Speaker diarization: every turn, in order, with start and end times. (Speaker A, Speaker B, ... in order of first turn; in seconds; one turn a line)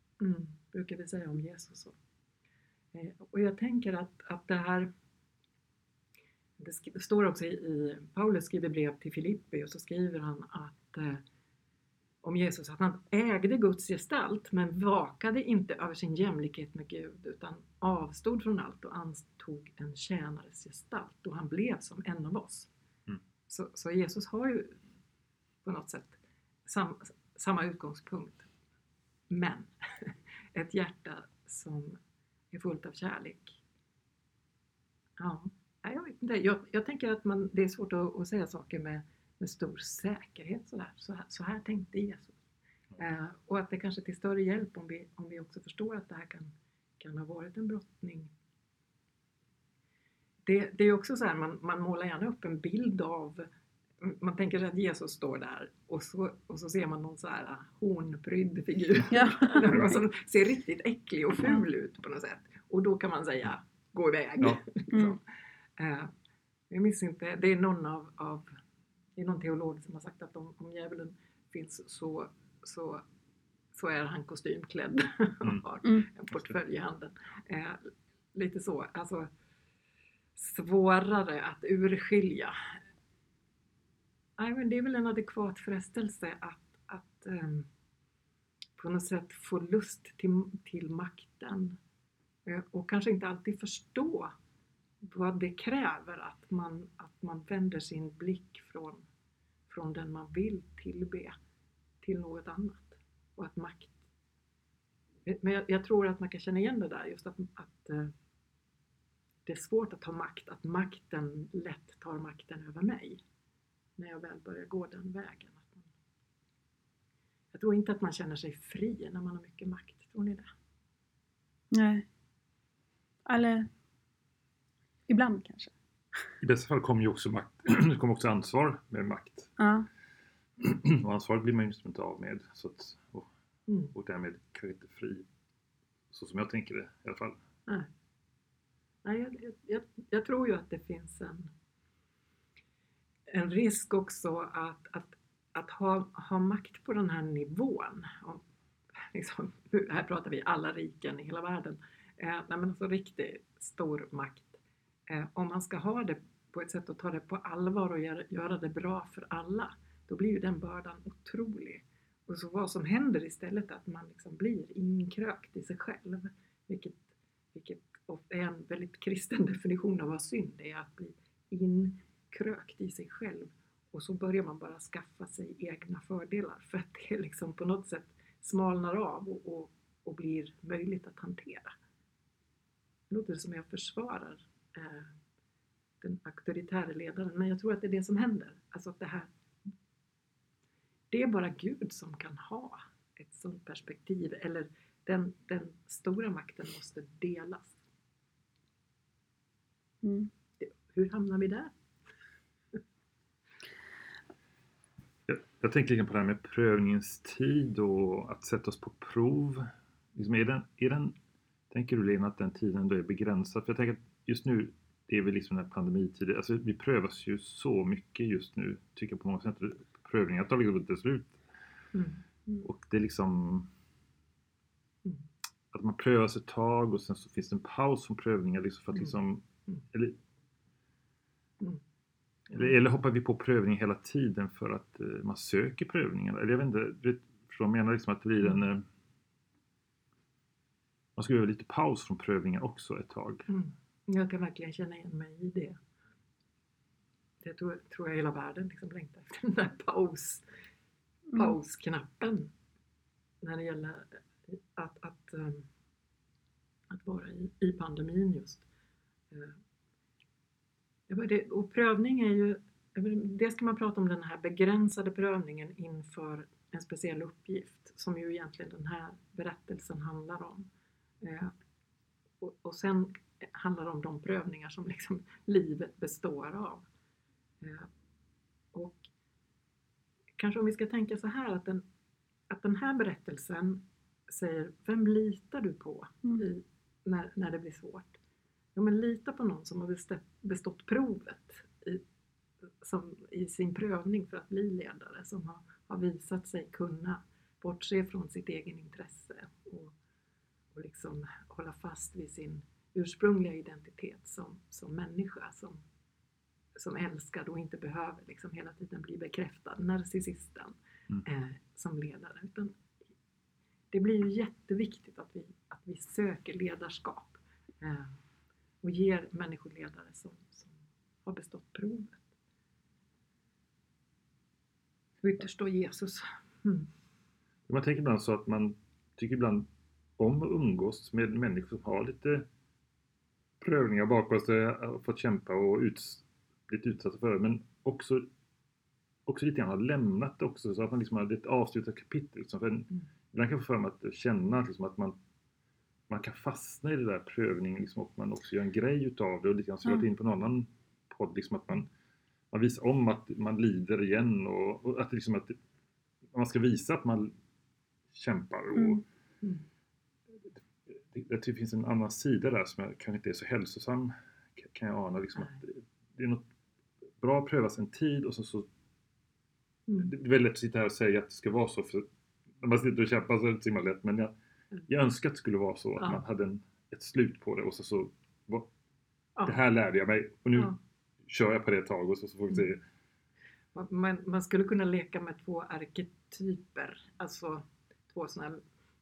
Speaker A: 0.2-1.9
Speaker A: 2.9-4.9
Speaker A: 6.6-11.2
Speaker A: 12.2-22.7
Speaker A: 23.5-24.8
Speaker A: 25.6-28.5
Speaker A: 29.3-32.0
Speaker A: 32.5-33.6
Speaker A: 35.2-42.4
Speaker A: 43.0-48.3
Speaker A: 50.4-53.5
Speaker A: 54.0-65.2
Speaker B: 59.1-59.9
Speaker A: 65.8-66.1
Speaker A: 66.7-68.5
Speaker A: 69.2-73.0
Speaker A: 73.7-79.3
Speaker A: 80.3-82.5
Speaker A: 84.4-87.7
Speaker A: 88.8-91.8
Speaker A: 92.5-94.3
Speaker A: 95.0-99.0
Speaker A: 99.7-101.3
Speaker A: 102.0-104.0
Speaker A: 105.2-108.1
Speaker A: 109.5-113.2
Speaker A: 114.0-115.9
Speaker A: 117.5-120.5
Speaker B: 121.7-122.0
Speaker B: 123.2-123.7
Speaker B: 125.1-125.7
Speaker C: 126.4-129.5
Speaker B: 129.6-129.9
Speaker C: 130.6-133.3
Speaker A: 133.7-133.9
Speaker C: 133.9-135.3
Speaker C: 136.1-137.4
Speaker A: 139.0-141.5
Speaker A: 143.3-148.4
Speaker A: 149.1-181.7
Speaker A: 183.1-185.1
Speaker A: 186.0-189.3
Speaker A: 191.1-197.8
Speaker B: 200.0-200.3
Speaker A: 200.6-201.7
Speaker C: 205.3-211.1
Speaker C: 211.7-221.4
Speaker A: 221.9-222.2
Speaker C: 222.6-223.7
Speaker C: 225.7-230.2
Speaker C: 232.5-238.8
Speaker C: 241.2-243.4
Speaker A: 243.5-245.8
Speaker A: 247.4-250.4
Speaker A: 251.3-252.5
Speaker A: 253.4-255.6
Speaker A: 256.9-258.6
Speaker A: 259.3-259.6
Speaker A: 261.1-270.7
Speaker A: 271.2-271.5
Speaker A: 272.4-276.8
Speaker A: 277.6-277.9
Speaker A: 278.7-279.0
Speaker A: 280.4-281.8
Speaker A: 282.5-288.1
Speaker A: 288.7-292.0
Speaker A: 292.8-299.9
Speaker A: 300.7-305.8
Speaker A: 306.8-312.8
Speaker A: 313.9-318.1
Speaker A: 318.8-322.3
Speaker A: 325.2-326.9
Speaker C: 327.7-332.5
Speaker C: 333.6-338.3
Speaker C: 339.2-345.2
Speaker C: 346.1-351.9
Speaker C: 352.5-355.6
Speaker C: 356.3-357.3
Speaker C: 358.1-359.0
Speaker C: 360.9-366.4
Speaker C: 367.2-368.7
Speaker C: 370.0-372.1
Speaker C: 372.6-374.3
Speaker C: 374.9-378.7
Speaker C: 379.4-382.8
Speaker A: 383.7-388.6